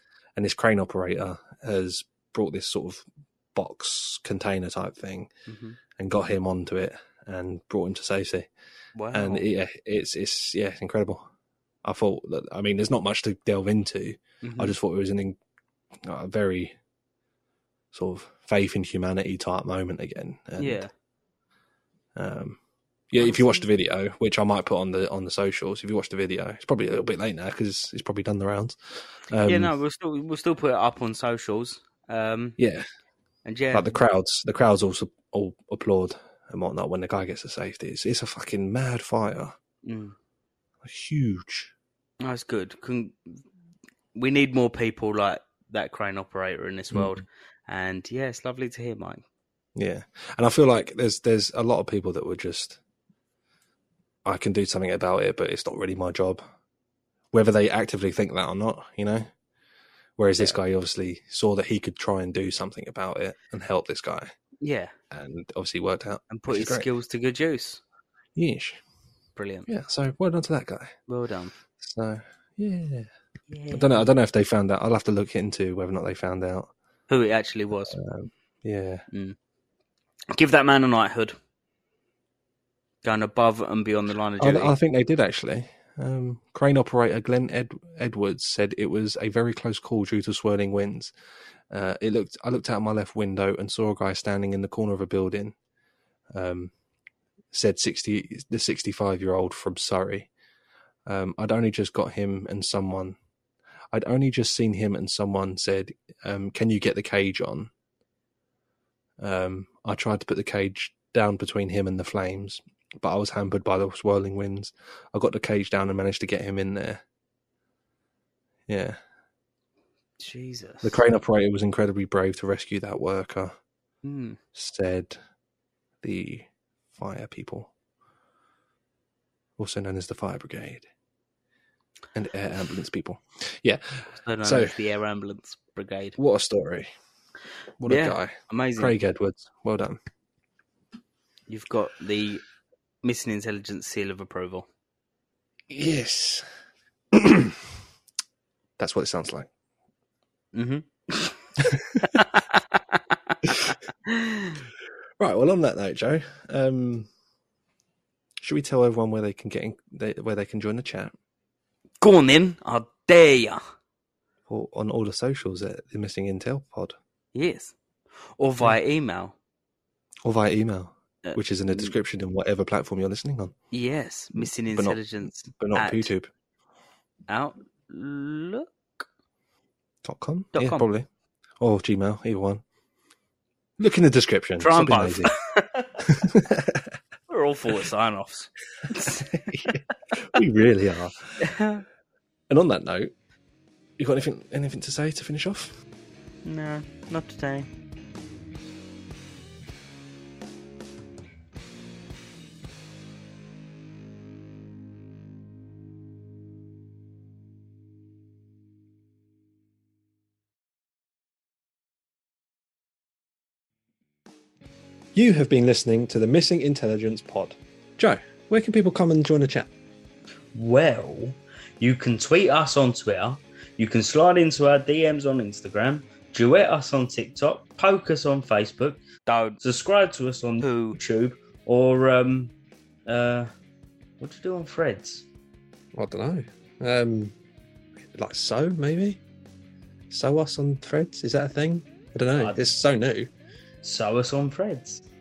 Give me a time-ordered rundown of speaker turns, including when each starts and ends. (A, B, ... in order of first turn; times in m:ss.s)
0:00.4-0:05.3 A
0:05.5-0:05.8 B
0:06.0-0:08.5 A
0:09.0-0:09.5 B
0:09.1-0:11.2 A
0:11.8-0:15.4 A
0:14.4-0:14.8 B
0:16.0-0:16.8 A
0:17.9-0:20.8 A
0:20.6-0:20.9 B
0:22.2-0:22.6 A
0:23.1-0:29.7 A
0:23.2-0:23.7 B
0:29.4-0:32.6 B
0:32.6-0:32.9 A
0:33.4-0:34.0 B
0:33.7-0:39.5 A
0:39.8-0:40.2 B
0:40.8-0:41.7 A
0:42.2-0:43.4 B
0:44.2-0:49.2 B
0:46.9-0:47.2 A
0:49.8-0:52.8 A
0:54.2-0:56.4 A
0:57.3-0:59.3 A
1:00.2-1:04.3 A
1:04.6-1:04.9 B
1:05.1-1:06.9 A
1:06.3-1:07.8 B
1:08.4-1:08.8 A
1:09.4-1:09.7 B
1:09.7-1:11.0 A
1:11.1-1:11.6 B
1:11.8-1:13.1 A
1:13.5-1:14.1 B
1:13.7-1:16.7 A
1:17.1-1:18.0 B
1:17.9-1:19.0 A
1:19.1-1:19.4 B
1:20.3-1:21.4 B
1:23.0-1:24.8 B
1:24.4-1:31.1 A
1:31.7-1:35.6 A
1:36.3-1:36.7 A
1:37.5-1:40.3 A
1:41.1-1:43.2 A
1:43.9-1:47.7 A
1:49.2-1:57.0 A
1:58.7-1:59.0 A
2:00.2-2:01.0 B
2:00.8-2:03.6 A
2:04.0-2:04.4 B
2:04.6-2:05.2 A
2:06.0-2:07.7 A
2:09.6-2:10.9 A
2:12.1-2:14.8 A
2:14.1-2:16.2 B
2:16.2-2:16.9 A
2:17.8-2:20.0 A
2:17.9-2:19.0 B
2:21.5-2:22.4 B
2:23.0-2:24.7 B
2:25.7-2:26.4 A
2:27.1-2:27.7 A
2:28.8-2:29.5 A
2:30.5-2:33.4 B
2:31.6-2:32.2 A
2:33.4-2:33.7 A
2:34.1-2:34.6 B
2:35.2-2:37.1 A
2:38.4-2:41.1 A
2:42.0-2:43.6 B
2:44.5-2:47.0 A
2:47.3-2:47.8 B
2:48.4-2:49.4 B
2:50.2-2:53.5 A
2:51.2-2:51.9 B
2:53.7-2:56.1 B
2:54.4-2:56.3 A
2:57.3-2:59.1 B
3:00.0-3:01.1 A
3:00.5-3:00.9 B
3:01.6-3:02.6 A
3:03.8-3:05.3 A
3:04.6-3:06.1 B
3:06.0-3:06.9 A
3:07.3-3:10.2 B
3:08.8-3:11.3 A
3:11.4-3:11.8 B
3:12.5-3:13.1 A
3:14.0-3:15.7 A
3:16.4-3:17.7 B
3:35.2-3:39.7 A
3:40.5-3:52.5 B
3:53.1-3:53.5 B
3:54.2-3:55.3 B
3:56.0-3:57.4 A
3:58.1-3:59.2 A
4:00.1-4:03.3 A
4:03.8-4:05.0 B